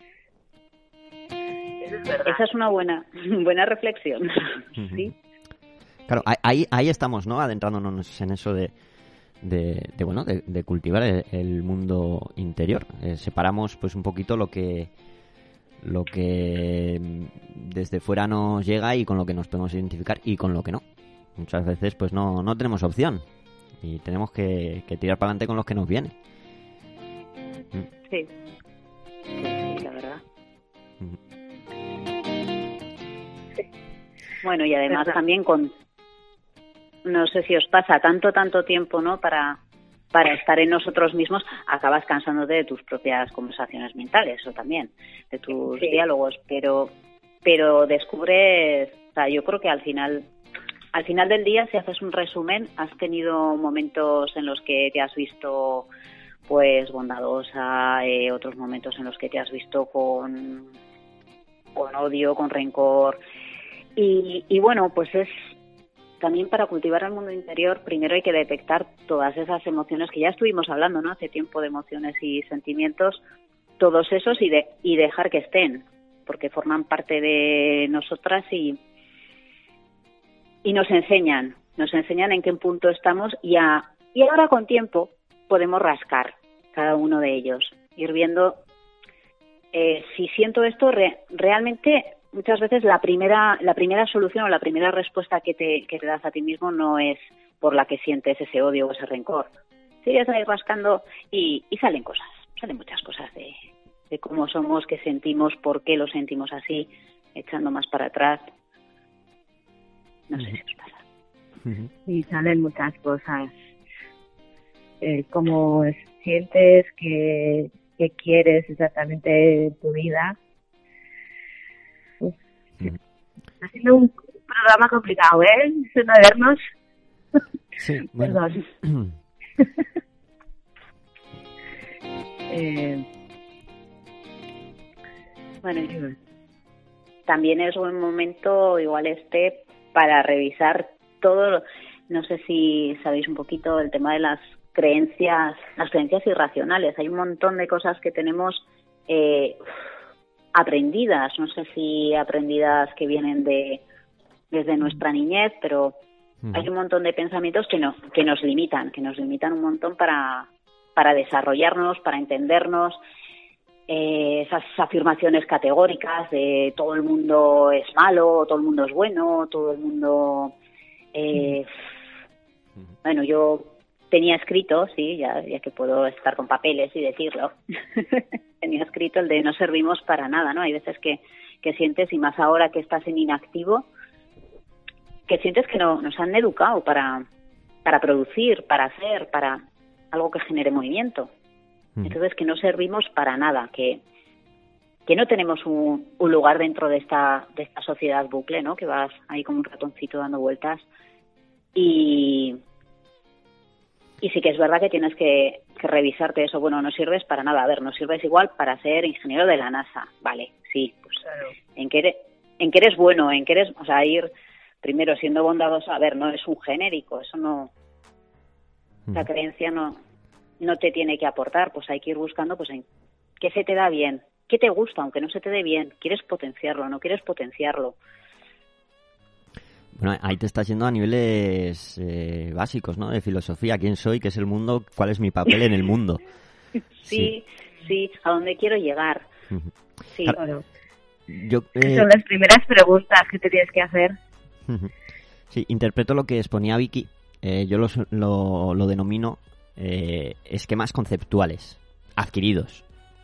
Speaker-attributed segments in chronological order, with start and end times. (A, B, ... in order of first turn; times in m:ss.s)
0:01.8-0:02.4 A
0:02.2-0:04.6 B
0:04.8-0:05.1 C
0:06.1-0:08.7 C
0:09.4-0:14.9 C
0:15.8-0:20.8 C
0:21.4-0:23.2 C
0:23.8-0:26.1 C
0:29.4-0:30.2 B
0:34.4-0:35.7 B
0:37.0-0:39.6 B
0:40.1-0:46.9 B
0:47.4-0:50.2 B
0:50.9-0:55.9 B
0:56.5-1:00.8 B
1:01.7-1:03.2 B
1:04.0-1:05.5 B
1:06.2-1:13.2 B
1:13.8-1:18.8 B
1:20.6-1:28.6 B
1:29.7-1:39.5 B
1:40.0-1:43.5 B
1:44.1-1:48.4 B
1:50.3-1:51.0 B
1:51.6-1:51.9 C
1:52.0-1:53.6 A
1:55.0-2:00.4 A
2:03.6-2:06.6 A
2:07.8-2:09.1 C
2:08.2-2:08.6 A
2:12.5-2:13.0 A
2:15.6-2:16.0 B
2:15.9-2:16.1 A
2:17.3-2:29.6 B
2:30.5-2:33.8 B
2:34.5-2:35.9 B
2:36.5-2:43.0 B
2:43.9-2:50.6 B
2:51.1-2:51.7 B
2:53.0-3:03.9 B
3:05.3-3:07.3 B
3:07.8-3:11.3 B
3:12.0-3:14.0 B
3:15.1-3:20.8 B
3:21.7-3:22.6 B
3:24.2-3:31.2 B
3:31.8-3:34.3 B
3:34.8-3:37.7 B
3:39.1-3:40.0 B
3:40.6-3:42.8 B
3:43.4-3:48.0 B
3:49.9-3:56.2 C
3:57.0-3:59.3 B
3:57.0-3:57.3 C
3:59.5-4:00.4 C
4:00.3-4:00.6 A
4:01.3-4:02.1 C
4:01.8-4:04.2 A
4:04.6-4:04.9 C
4:05.5-4:12.8 C